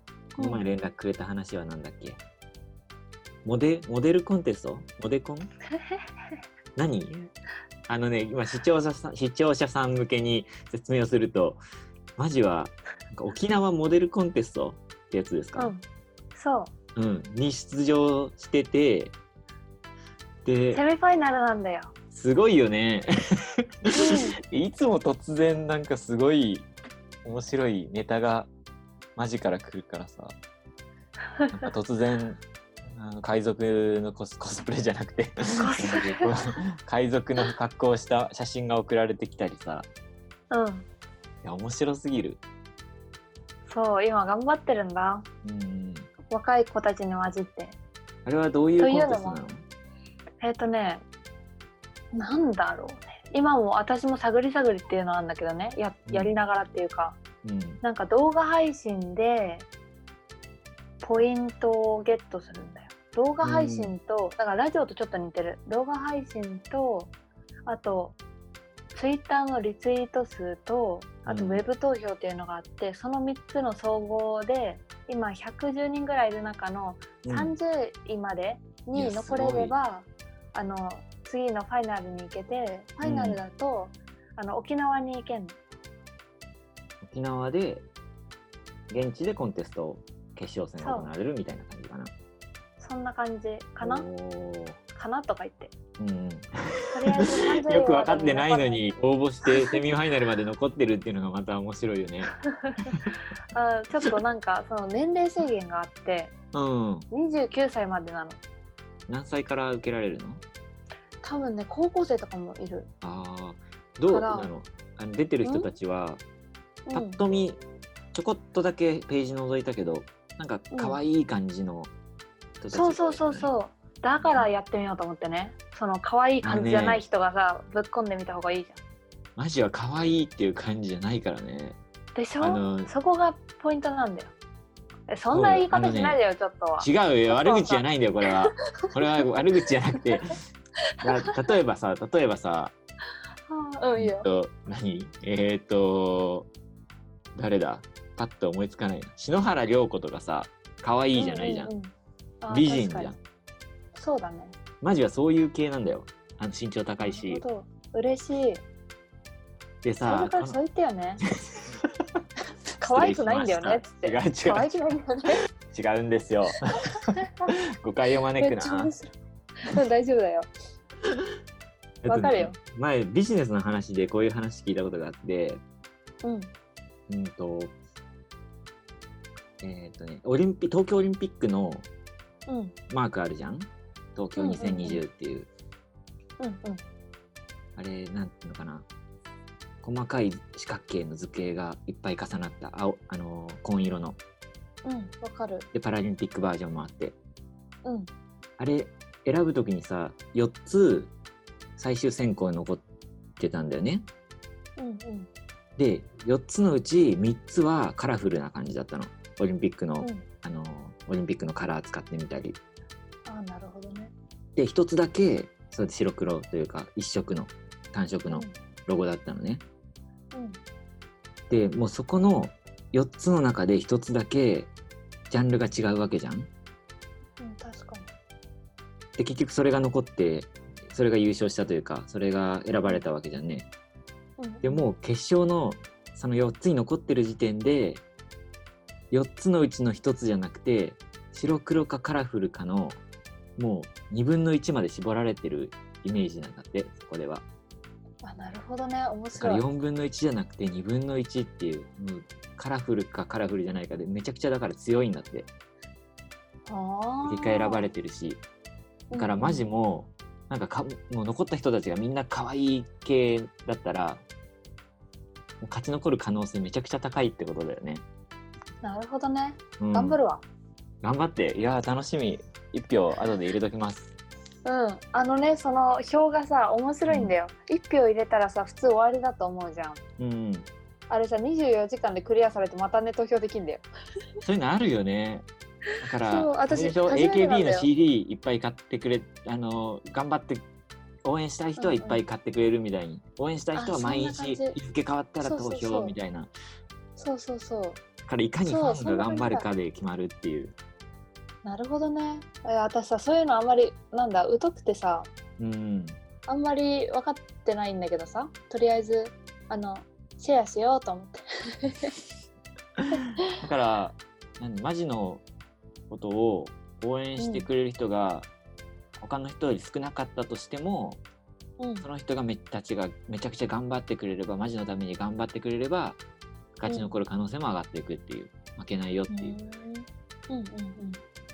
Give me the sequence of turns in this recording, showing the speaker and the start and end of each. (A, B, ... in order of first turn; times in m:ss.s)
0:00.4-0:00.7 A
0:00.4-0:02.2 B
0:03.4-0:05.5 B
0:06.8-0:07.3 B
0:07.9-0:11.6 B
0:12.2-0:15.7 B
0:15.6-0:16.7 A
0:17.0-0:19.1 B
0:20.4-0:20.8 B
0:20.7-0:21.9 A
0:22.1-0:23.1 B
0:23.9-0:24.4 A
0:24.1-0:26.7 B
0:27.2-0:28.5 B
0:29.2-0:30.3 B
0:31.4-0:31.7 A
0:31.5-0:32.4 B
0:33.0-0:39.9 B
0:35.5-0:36.3 A
0:40.5-0:40.8 A
0:41.4-0:42.4 B
0:43.7-0:45.2 A
0:45.4-0:46.1 B
0:46.3-0:47.8 A
0:48.2-0:49.6 B
0:48.8-0:49.4 A
0:50.4-0:51.0 A
0:52.1-0:57.2 A
0:56.1-0:56.3 B
0:57.4-0:57.8 B
0:57.8-0:59.7 A
1:01.0-1:07.1 A
1:03.4-1:03.9 B
1:07.7-1:08.2 A
1:08.9-1:25.6 A
1:11.2-1:11.7 B
1:17.2-1:17.6 B
1:18.9-1:19.7 B
1:23.0-1:23.4 B
1:27.0-1:27.9 B
1:28.9-1:32.1 B
1:30.8-1:31.1 A
1:32.8-1:34.0 A
1:33.8-1:34.8 B
1:34.9-1:35.7 A
1:36.0-1:42.3 B
1:36.9-1:38.9 A
1:42.5-1:42.9 A
1:43.5-1:46.3 A
1:46.5-1:47.1 B
1:47.1-1:48.4 A
1:49.1-1:50.4 B
1:51.2-1:52.9 A
1:53.0-1:56.2 B
1:54.1-1:54.5 A
1:55.4-1:55.7 A
1:56.8-1:57.2 A
1:56.9-1:57.6 B
1:58.1-2:01.9 B
2:00.7-2:01.0 A
2:02.6-2:03.5 B
2:02.7-2:08.8 A
2:04.2-2:04.5 B
2:06.4-2:07.0 B
2:09.4-2:11.8 B
2:12.1-2:14.3 A
2:12.4-2:12.9 B
2:15.1-2:17.8 A
2:15.3-2:16.2 B
2:16.8-2:20.4 B
2:21.0-2:22.7 B
2:23.5-2:24.3 A
2:24.0-2:26.5 B
2:27.3-2:31.7 B
2:31.1-2:33.1 A
2:32.5-2:33.2 B
2:33.9-2:34.6 A
2:34.8-2:37.4 B
2:37.0-2:38.6 A
2:39.8-2:40.6 B
2:40.0-2:41.2 A
2:42.8-2:45.4 A
2:42.8-2:44.7 B
2:45.7-2:46.8 B
2:47.2-2:47.5 A
2:47.5-2:48.9 B
2:48.4-2:50.5 A
2:52.0-2:55.6 B
2:52.1-2:52.6 A
2:56.2-2:56.5 A
2:57.1-2:57.7 B
2:59.6-3:01.9 B
3:02.5-3:02.8 A
3:02.9-3:05.5 B
3:04.4-3:05.0 A
3:06.4-3:06.8 A
3:07.8-3:08.9 B
3:09.8-3:14.2 B
3:14.8-3:15.7 A
3:15.7-3:17.2 B
3:17.8-3:18.1 A
3:18.6-3:21.1 B
3:21.8-3:22.8 B
3:23.4-3:24.1 B
3:24.8-3:25.3 A
3:25.8-3:32.6 B
3:30.0-3:30.3 A
3:33.2-3:34.1 A
3:34.6-3:39.6 B
3:40.3-3:40.6 A
3:41.5-3:44.7 B
3:45.3-3:46.5 B
3:47.4-3:48.1 A
3:49.2-3:53.7 B
3:54.4-3:54.8 A
3:54.6-3:58.0 B
3:59.1-4:03.0 B
4:03.6-4:07.4 B
4:08.2-4:09.6 A
4:09.3-4:15.5 B
4:16.7-4:17.8 A
4:17.3-4:18.4 B
4:19.1-4:19.6 A
4:19.1-4:24.2 B
4:25.6-4:28.0 B
4:28.8-4:30.4 A
4:29.8-4:30.2 B
4:31.0-4:34.1 B
4:34.6-4:40.0 A
4:37.1-4:37.3 B
4:40.2-4:40.7 B
4:41.1-4:43.8 A
4:44.4-4:45.4 B
4:46.0-4:50.6 B
4:46.2-4:47.9 A
4:51.2-4:56.5 B
4:51.8-4:52.2 A
4:53.7-4:54.8 A
4:55.4-4:56.2 A
4:57.2-4:58.0 A
4:58.2-5:00.7 B
4:58.6-4:59.7 A
5:01.6-5:05.3 A
5:05.6-5:06.2 B
5:06.5-5:12.1 A
5:13.6-5:15.4 B
5:16.1-5:18.5 B
5:17.4-5:17.7 A
5:19.2-5:21.2 B
5:21.8-5:22.0 A
5:22.0-5:26.2 B
5:26.8-5:29.6 B
5:29.3-5:31.2 A